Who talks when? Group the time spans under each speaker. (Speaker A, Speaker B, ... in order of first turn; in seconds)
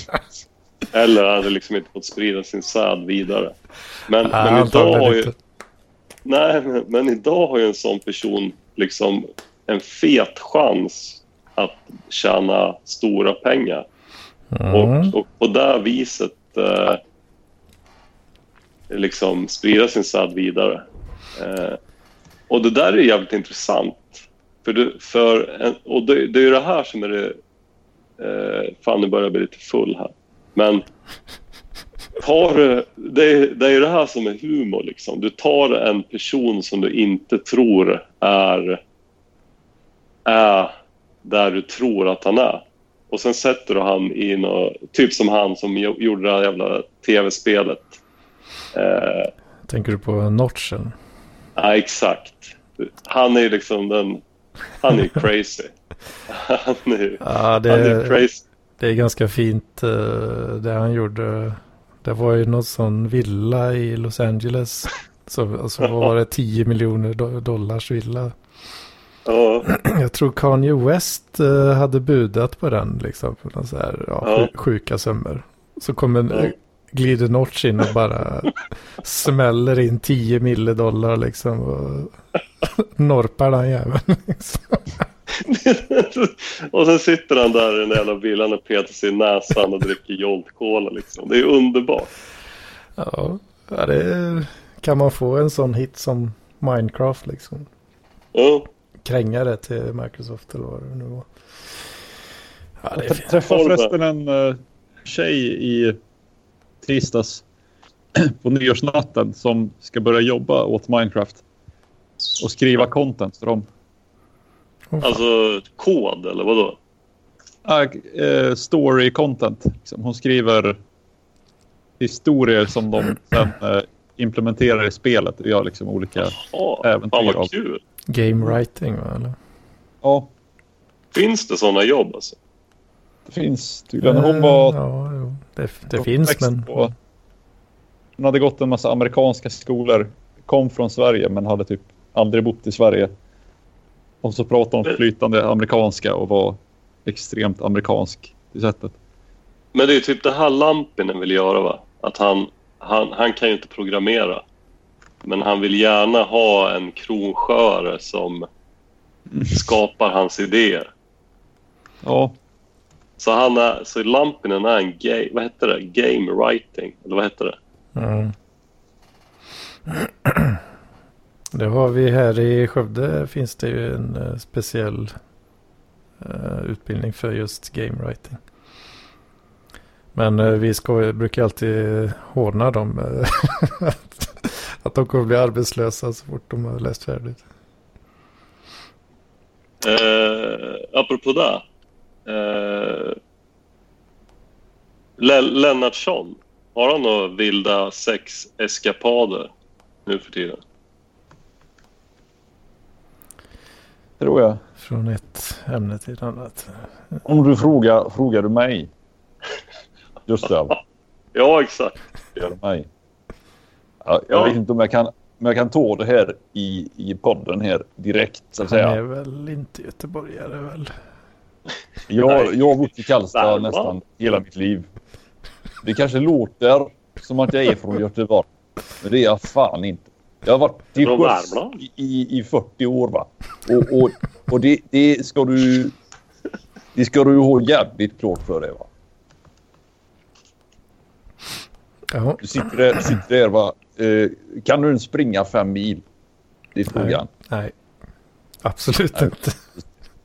Speaker A: 0.9-3.5, 4.1-5.3, 6.2-13.9, 14.7-17.0, 18.9-21.8, 22.5-27.4, 28.2-30.8, 32.2-38.8, 40.3-40.7, 41.2-48.0, 48.7-49.3, 51.6-54.2, 54.8-55.7, 56.3-58.4, 65.8-66.1, 69.3-69.7, 74.2-74.5, 85.3-92.1, 98.3-98.7, 103.5-103.9, 115.0-116.8, 126.4-127.8, 131.1-132.4, 149.7-154.4, 155.2-158.5, 159.5-160.9, 163.2-167.6, 189.8-191.6, 192.3-193.2, 195.2-199.5, 200.1-200.6, 211.3-212.4, 222.3-222.5, 223.3-224.0, 231.0-231.8
Speaker B: 4.3-5.4, 14.5-15.1, 49.7-51.0, 57.2-58.3, 58.8-68.3, 69.7-85.0, 93.0-97.7, 99.0-101.3, 102.8-103.4, 114.9-115.2, 128.1-129.4, 134.0-136.8, 168.0-168.3, 169.9-170.6, 171.5-175.2, 176.2-178.4, 180.1-187.4, 204.8-207.2, 218.6-220.9, 242.1-243.1, 246.9-247.7, 248.6-249.6
Speaker C: 103.0-106.0, 106.8-107.4, 108.2-111.4, 112.4-113.7, 117.6-120.8, 122.0-127.5, 130.0-130.3, 133.3-134.8, 136.0-136.9, 138.2-143.1, 144.2-148.9, 159.3-159.6, 162.0-162.3, 204.2-204.6, 207.3-208.9, 210.3-210.8, 212.4-212.9, 214.0-219.0, 222.1-224.9, 225.8-228.5, 229.0-235.9, 236.9-238.9, 242.4-246.0, 246.8-247.3